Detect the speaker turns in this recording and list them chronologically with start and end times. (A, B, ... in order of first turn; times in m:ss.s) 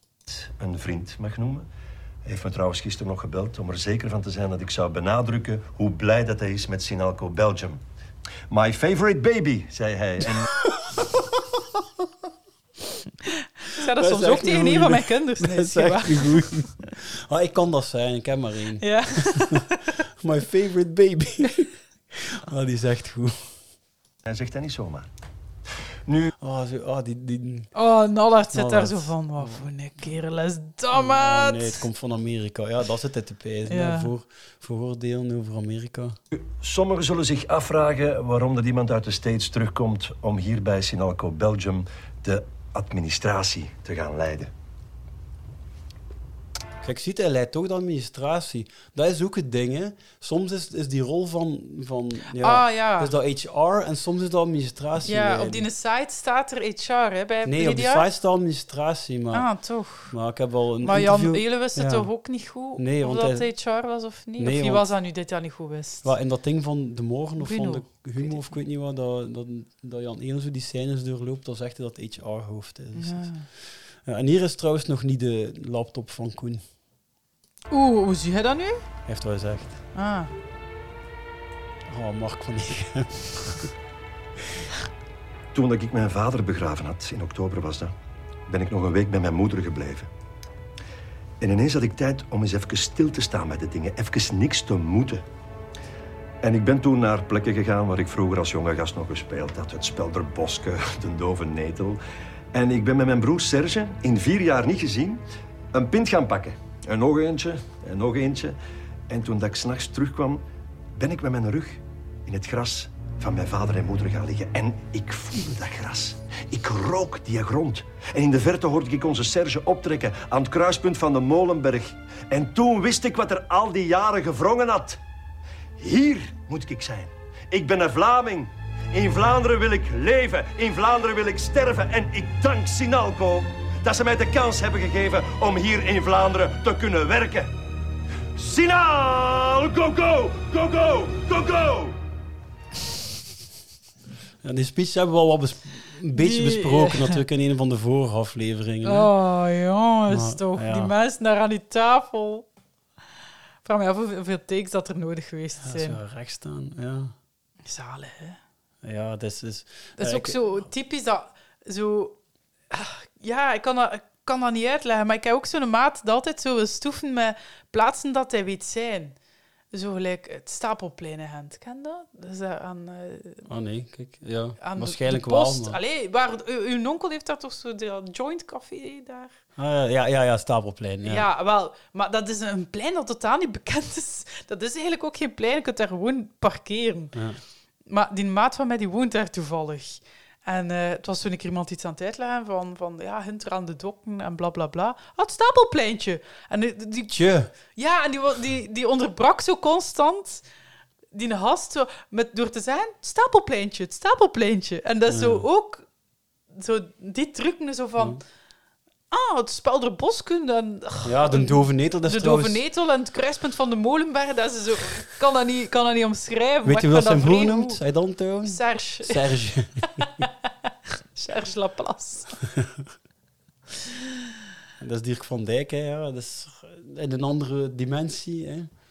0:00.3-0:01.7 A
0:02.2-0:07.8 A
0:08.5-0:10.5 A
0:13.7-0:16.5 B
0:14.0-0:23.6 C
0:18.8-0:19.9 B
0:24.2-0:25.1 A
0:26.1-0:26.3 A
0:26.4-0:27.7 C
0:27.7-0:31.8 B
0:28.5-0:29.7 C
0:30.9-0:36.2 C
0:33.7-0:34.1 B
0:36.3-0:44.5 A
0:46.8-0:55.7 C
0:52.4-0:53.1 B
0:55.0-0:58.1 B
0:57.4-0:59.5 C
0:59.3-1:00.1 B
1:00.1-1:02.1 C
1:00.8-1:06.1 B
1:02.8-1:03.5 C
1:04.4-1:04.9 C
1:06.0-1:16.6 C
1:07.4-1:08.4 B
1:13.0-1:13.5 B
1:17.7-1:18.8 B
1:19.1-1:19.8 C
1:20.0-1:20.3 B
1:21.9-1:23.7 C
1:25.5-1:27.9 A
1:28.5-1:30.1 A
1:31.4-1:35.2 A
1:36.4-1:42.0 A
1:42.5-1:48.6 A
1:49.1-1:50.4 A
1:51.0-2:05.0 A
2:05.8-2:17.5 A
2:18.4-2:22.0 A
2:24.4-2:29.1 C
2:26.1-2:27.2 B
2:28.8-2:32.5 B
2:30.1-2:30.9 C
2:33.6-2:36.0 B
2:35.6-2:37.1 C
2:37.6-2:38.4 B
2:38.8-2:40.4 C
2:40.0-2:42.2 B
2:42.7-2:49.2 B
2:49.7-2:53.4 B
2:53.4-2:55.8 C
2:54.6-2:59.3 B
2:59.6-3:01.3 C
3:01.0-3:07.2 B
3:07.1-3:07.4 C
3:07.9-3:20.4 B
3:17.1-3:17.5 C
3:21.1-3:25.9 B
3:25.1-3:25.4 C
3:26.5-3:28.2 B
3:29.1-3:37.8 B
3:31.0-3:32.6 C
3:36.6-3:40.3 C
3:38.4-3:39.2 B
3:39.8-3:40.3 B
3:41.1-3:42.4 B
3:44.8-3:48.7 C